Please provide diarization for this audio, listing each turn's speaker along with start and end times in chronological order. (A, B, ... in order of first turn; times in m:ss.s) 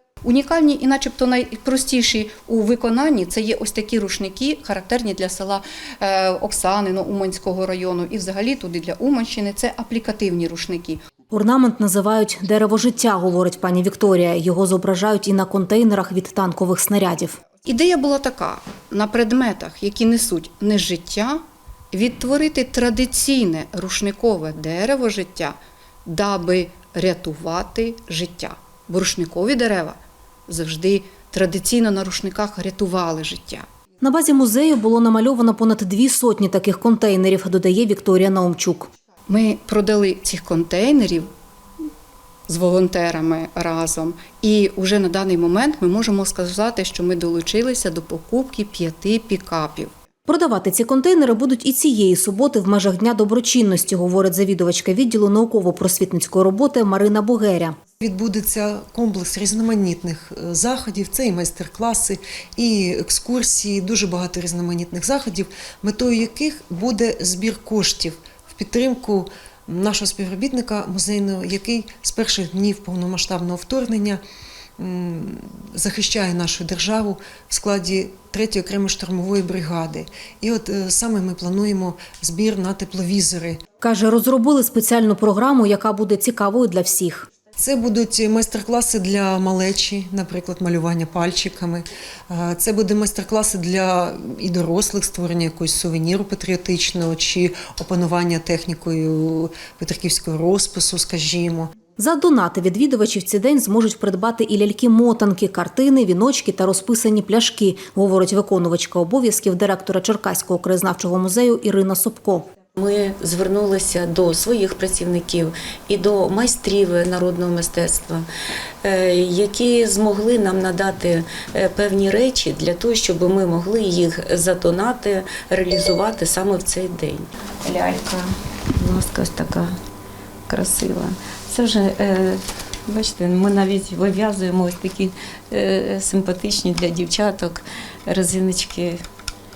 0:00.2-0:11.0 A
0:11.3-0:17.4 B
0:17.6-0:21.4 A
0:21.9-0:25.5 A
0:26.0-0:33.6 A
0:34.0-0:38.9 B
0:39.3-0:41.3 A
0:42.5-0:49.9 A
0:50.3-0:57.7 B
0:58.0-1:14.2 C
1:14.8-1:23.6 C
1:23.8-1:27.3 B
1:27.6-1:41.7 C
1:42.0-1:52.5 B
1:52.8-1:58.2 D
1:58.8-2:09.7 D
2:10.5-2:19.0 D